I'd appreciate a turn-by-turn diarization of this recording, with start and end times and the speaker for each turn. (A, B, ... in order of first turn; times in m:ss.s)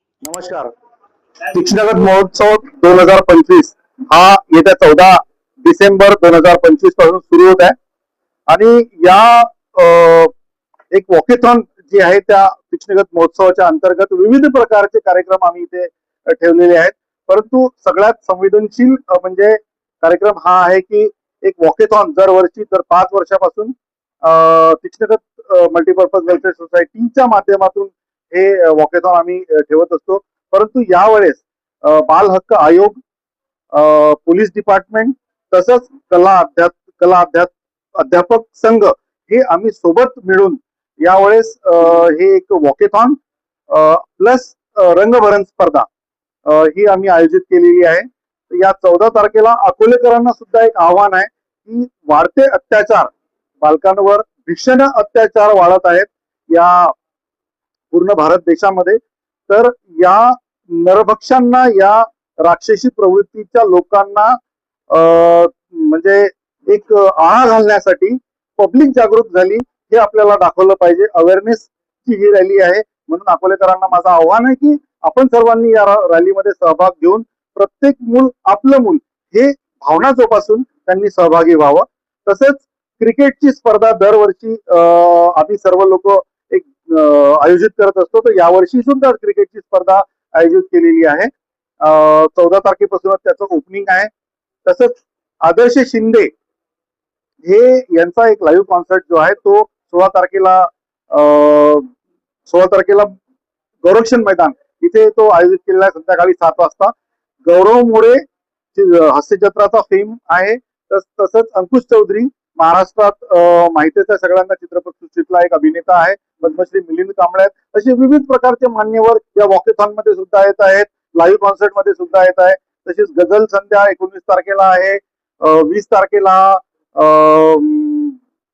0:00.2-0:00.7 A
0:01.5-0:07.8 A
0:08.5-0:10.3 A
0:10.9-0:33.0 A
0:33.7-0:43.2 A
0:43.7-0:45.9 A
0:46.5-0:57.0 A
0:57.9-1:04.4 A
1:04.9-1:31.3 A
1:31.8-1:34.1 A
1:34.6-1:36.3 A
1:37.4-1:41.9 A
1:42.5-1:43.2 A
1:43.8-2:08.2 A